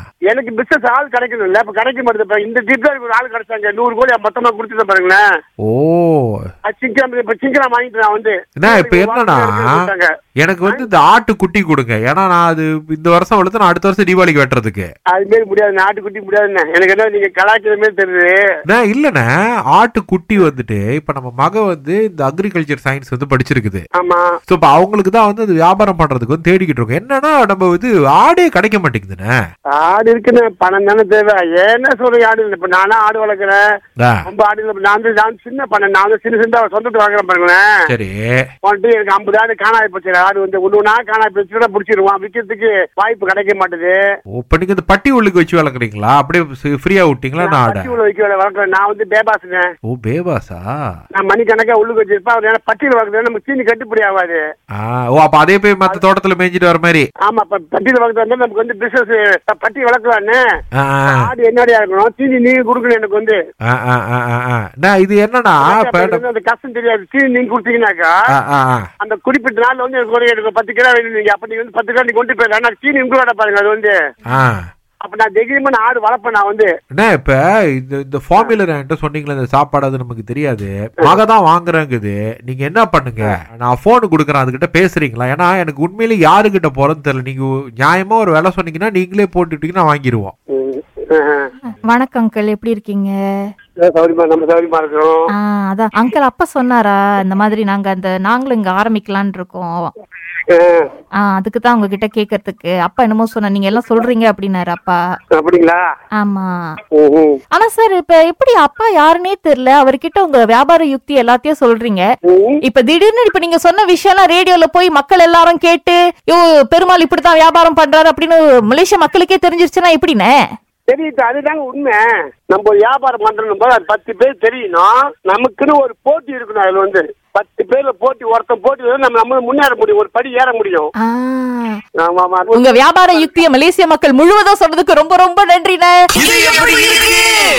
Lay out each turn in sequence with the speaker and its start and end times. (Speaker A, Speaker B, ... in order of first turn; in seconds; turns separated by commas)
Speaker A: 0.3-5.2, Speaker B: 5.6-6.5, Speaker A: 6.7-10.1, Speaker B: 8.6-9.8, Speaker B: 10.4-14.9, Speaker A: 15.1-18.4, Speaker B: 18.7-23.8, Speaker A: 24.0-24.3, Speaker B: 24.5-29.3, Speaker A: 29.7-33.6, Speaker B: 34.0-34.2, Speaker A: 34.2-37.7, Speaker B: 37.9-38.4, Speaker A: 38.6-44.0, Speaker B: 44.3-47.9, Speaker A: 47.4-49.7, Speaker B: 49.9-50.8, Speaker A: 51.1-54.4, Speaker B: 54.8-57.1, Speaker A: 57.2-60.4, Speaker B: 60.8-61.3, Speaker A: 61.1-63.4, Speaker B: 63.7-66.2, Speaker A: 65.6-68.2, Speaker B: 68.3-68.8, Speaker A: 69.0-73.9, Speaker B: 74.3-74.6, Speaker A: 75.0-76.7, Speaker B: 76.9-90.3, Speaker A: 90.5-91.5, Speaker C: 91.9-93.5, Speaker A: 93.8-95.2, Speaker C: 95.4-99.9, Speaker A: 100.5-100.9, Speaker C: 101.2-105.0, Speaker A: 105.3-105.8, Speaker C: 106.2-106.8, Speaker A: 106.9-107.4, Speaker C: 107.5-112.0, Speaker A: 112.3-112.6, Speaker C: 112.7-120.3, Speaker A: 120.9-130.9, Speaker C: 131.0-131.8, Speaker A: 132.0-133.3, Speaker C: 132.5-137.3